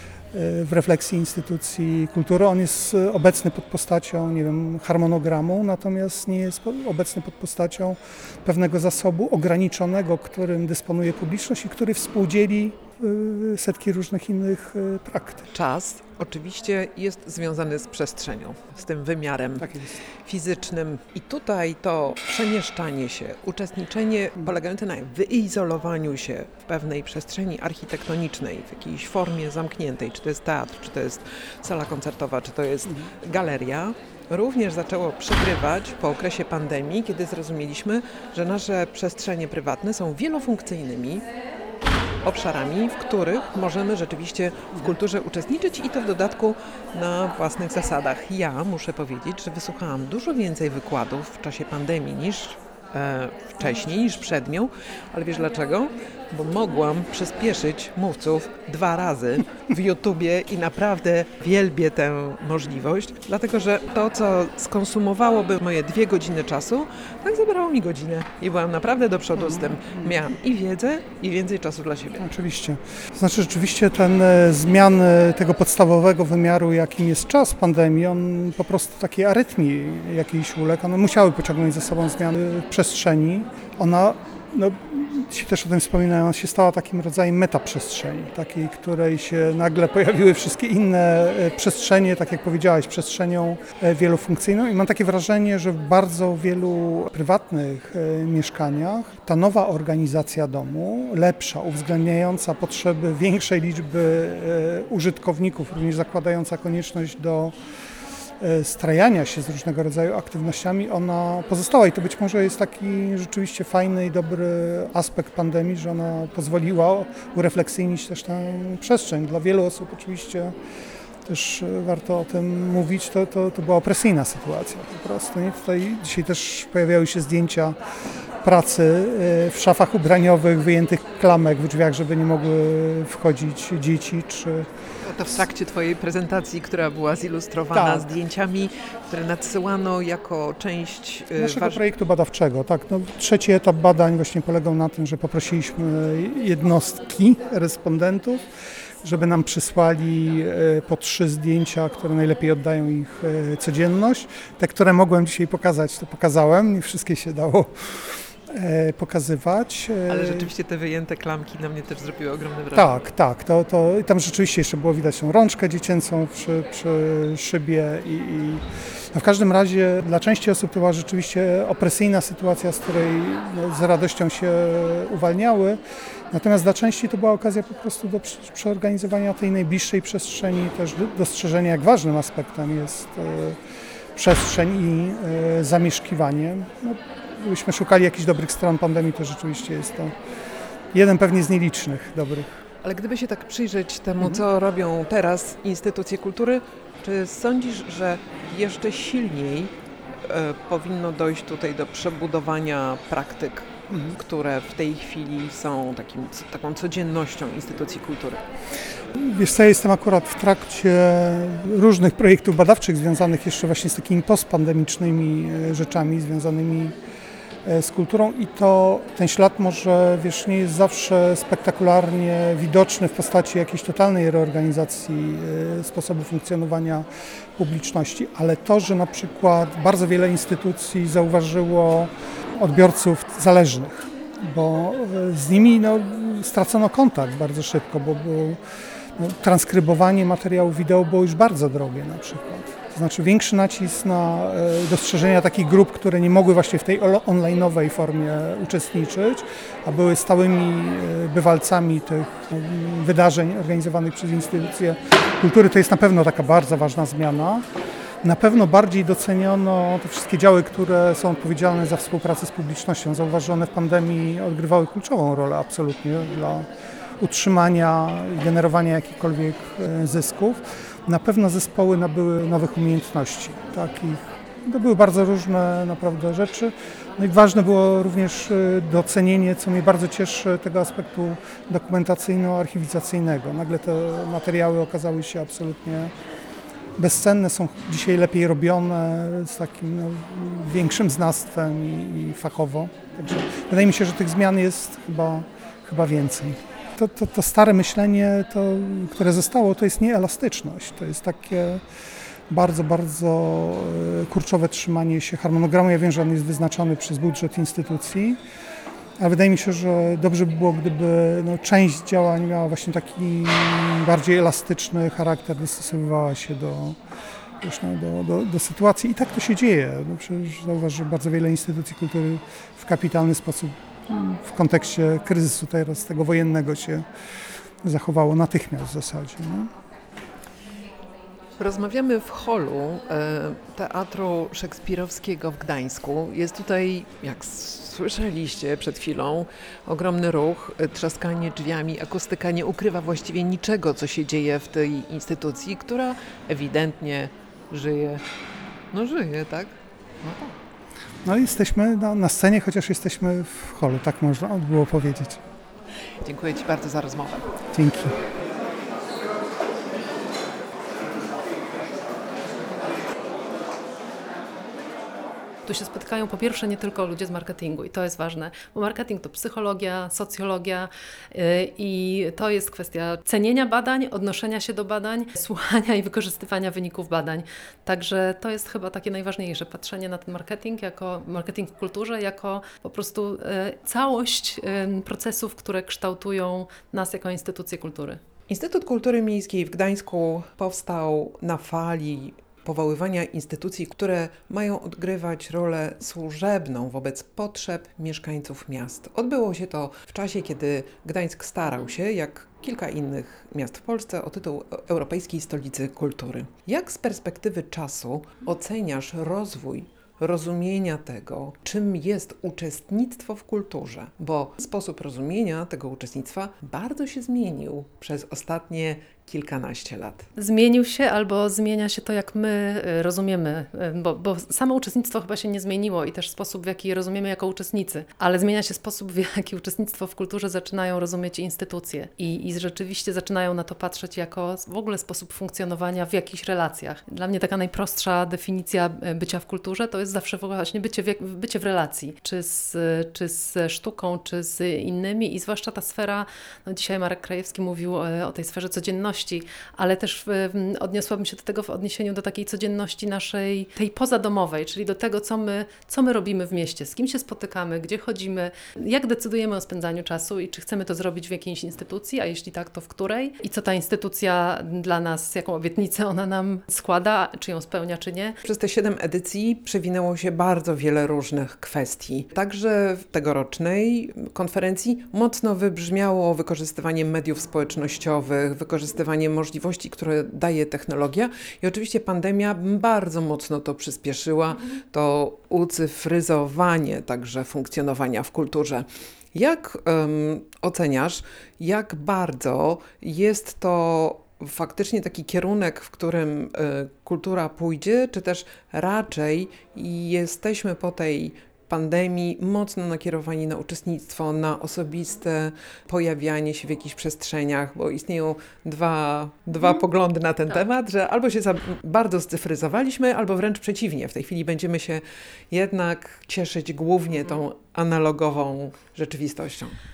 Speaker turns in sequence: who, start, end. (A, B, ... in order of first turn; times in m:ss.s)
0:00.3-0:15.5 A
0:15.5-0:19.7 B
0:19.6-0:20.0 A
0:20.2-0:41.2 B
0:42.2-1:12.2 B
1:09.4-1:10.2 A
1:12.2-1:47.6 A
1:48.4-2:00.6 A
2:01.2-2:07.8 A
2:08.4-2:14.7 A
2:15.0-2:21.9 B
2:17.7-2:18.1 A
2:21.4-2:28.4 A
2:29.0-2:40.5 A
2:40.1-2:43.0 B
2:42.7-2:55.8 A
2:56.3-3:03.6 A
3:04.2-3:10.2 A
3:10.9-3:12.6 A
3:12.8-3:19.7 B
3:20.2-3:28.4 B
3:23.9-3:24.2 A
3:29.2-3:37.0 A
3:37.6-3:58.6 A
3:59.2-4:17.7 A
4:18.2-4:26.7 A
4:27.2-4:46.1 A
4:47.0-5:01.8 A
5:02.5-5:08.4 A
5:09.2-5:17.0 A
5:17.6-5:27.0 A
5:27.8-5:29.7 A
5:31.6-5:48.2 B
5:48.9-5:50.6 B
5:51.2-5:55.4 A
5:56.2-5:57.5 B
5:57.7-5:58.2 A
6:05.6-6:28.2 C
6:28.5-7:00.3 B
7:00.4-7:48.4 C
7:48.4-8:39.8 B